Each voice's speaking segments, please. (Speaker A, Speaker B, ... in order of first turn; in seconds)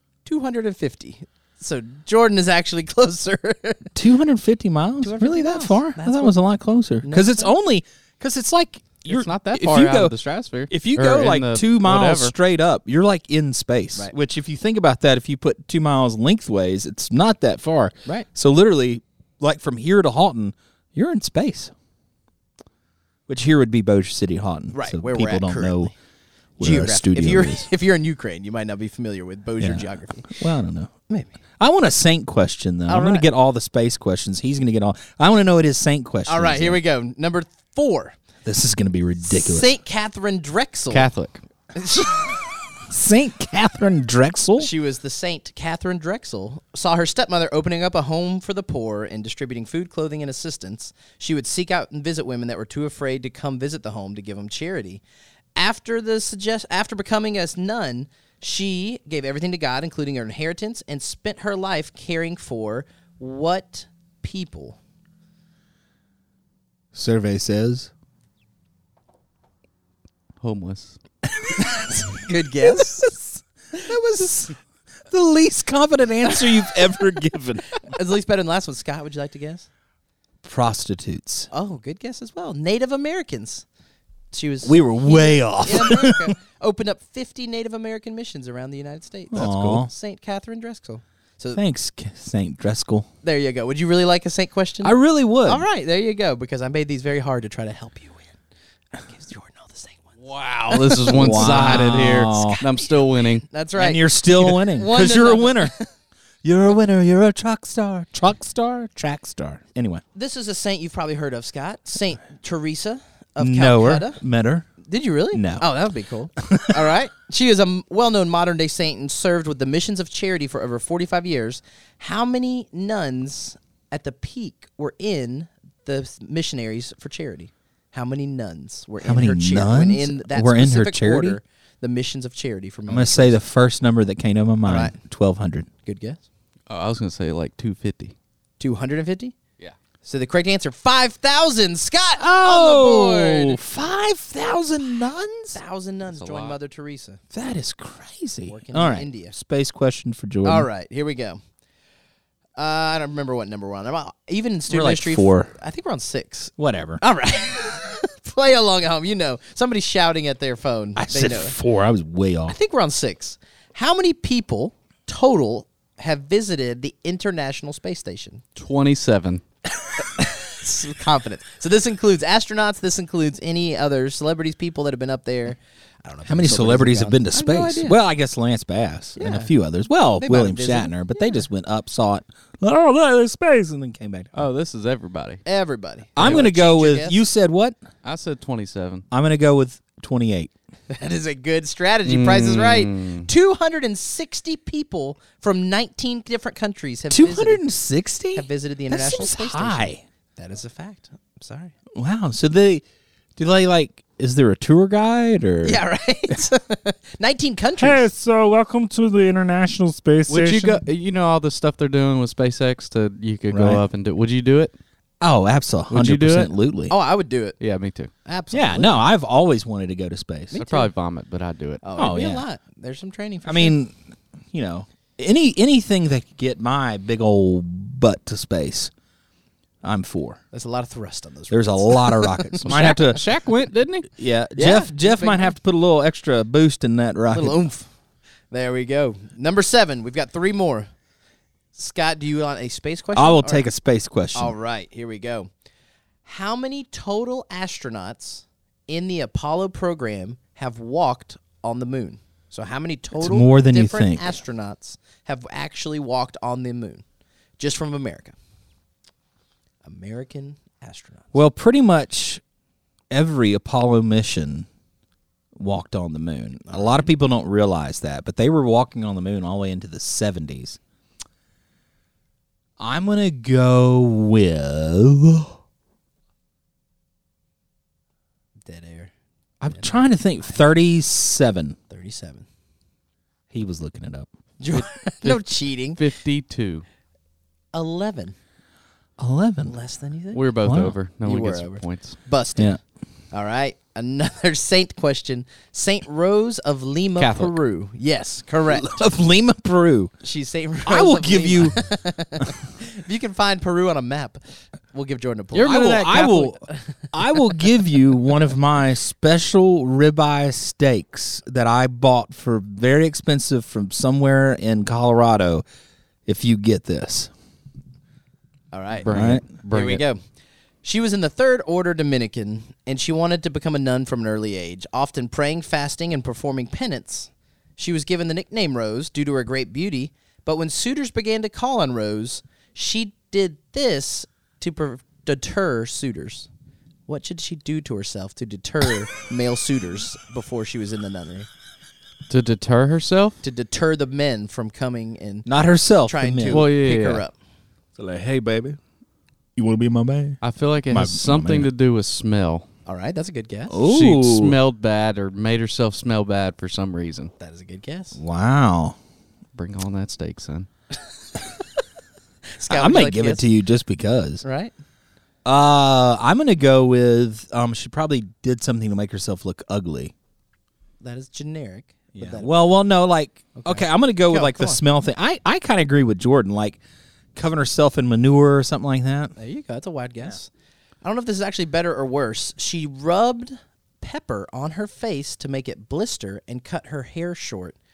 Speaker A: 0.2-3.9, 5.0-6.3, 7.0-7.5, 24.7-25.9, 26.6-30.3, 31.1-31.3, 32.9-33.2, 36.3-38.2, 39.2-41.1, 41.8-42.3, 44.6-55.0, 55.5-64.8, 71.6-73.1, 76.3-77.0, 77.7-79.7, 81.5-83.6, 84.3-91.6, 93.2-98.3, 99.0-101.9, 102.5-105.9, 110.1-114.2, 114.8-133.4, 134.6-134.9, 135.8-136.2, 138.6-139.3, 140.0-143.6, 145.5-147.2, 148.5-149.3, 150.4-151.4, 152.6-161.6, 162.5-168.4, 170.0-178.0, 179.2-179.5, 180.2-181.4, 185.4-187.2, 190.9-197.6, 198.3-201.7, 205.6-208.1, 216.9-217.5, 218.2-219.0, 220.5-220.9, 221.8-223.7, 230.5-233.2, 234.6-235.5, 237.3-237.9, 238.5-240.9, 241.7-243.7, 244.3-245.5, 246.2-257.0, 257.6-258.3, 259.8-261.3, 266.6-267.1, 278.6-279.1, 279.7-280.0, 281.9-282.4, 284.6-286.0, 287.7-288.3, 289.6-290.4, 291.2-292.8, 293.3-299.0, 300.2-304.4, 304.9-307.1, 318.7-319.1, 319.7-320.2, 320.8-336.5, 337.1-341.5, 343.4-345.5, 346.0-347.3, 352.9-353.8, 357.4-358.2, 362.5-363.4, 364.4-364.7, 371.0-372.5, 373.5-374.8, 379.4-380.5, 381.0-387.8
Speaker B: 3.9-10.1, 10.7-21.7, 23.3-25.9, 26.6-27.7, 29.6-30.9, 31.6-36.8, 38.4-39.7, 42.1-44.7, 66.9-67.9, 71.4-74.5, 75.1-77.8, 80.4-81.5, 84.6-86.3, 89.3-89.9, 91.5-93.1, 94.8-95.7, 101.1-102.6, 103.8-105.7, 106.4-110.0, 113.4-114.7, 115.3-115.7, 116.4-116.8, 129.0-131.4, 132.9-135.7, 142.2-145.6, 147.3-150.7, 154.7-155.5, 156.6-157.0, 160.9-162.6, 176.2-184.3, 186.2-187.8, 189.1-190.5, 197.1-200.0, 201.9-202.8, 203.4-205.8, 207.8-210.8, 213.5-213.8, 215.2-216.9, 218.5-220.6, 222.0-222.4, 223.4-223.9, 224.5-228.9, 229.8-230.4, 231.5-233.3, 234.1-237.6, 243.1-244.5, 253.2-254.4, 261.3-262.4, 263.1-264.7, 265.6-270.8, 272.8-275.6, 279.6-281.8, 283.5-284.3, 289.2-289.7, 290.6-290.9, 298.7-300.1, 300.9-301.8, 305.5-315.6, 316.2-317.3, 319.1-319.4, 345.4-346.7, 347.9-348.8, 349.6-351.7, 353.7-354.6, 358.1-358.9, 362.7-364.4, 365.4-370.1, 372.1-376.8, 377.3-379.3
Speaker C: 9.1-12.3, 40.9-41.4, 70.4-71.0, 100.3-103.4, 136.7-138.1, 146.1-146.6, 168.6-169.4, 184.3-185.4, 188.0-189.0, 192.1-193.3, 210.3-214.7, 215.9-216.5, 217.6-218.1, 220.6-221.8, 232.6-234.1, 284.7-286.8, 290.3-292.2, 297.2-297.5, 319.0-320.0, 342.3-343.4, 346.5-347.2, 350.4-352.6, 353.8-357.3, 359.5-360.7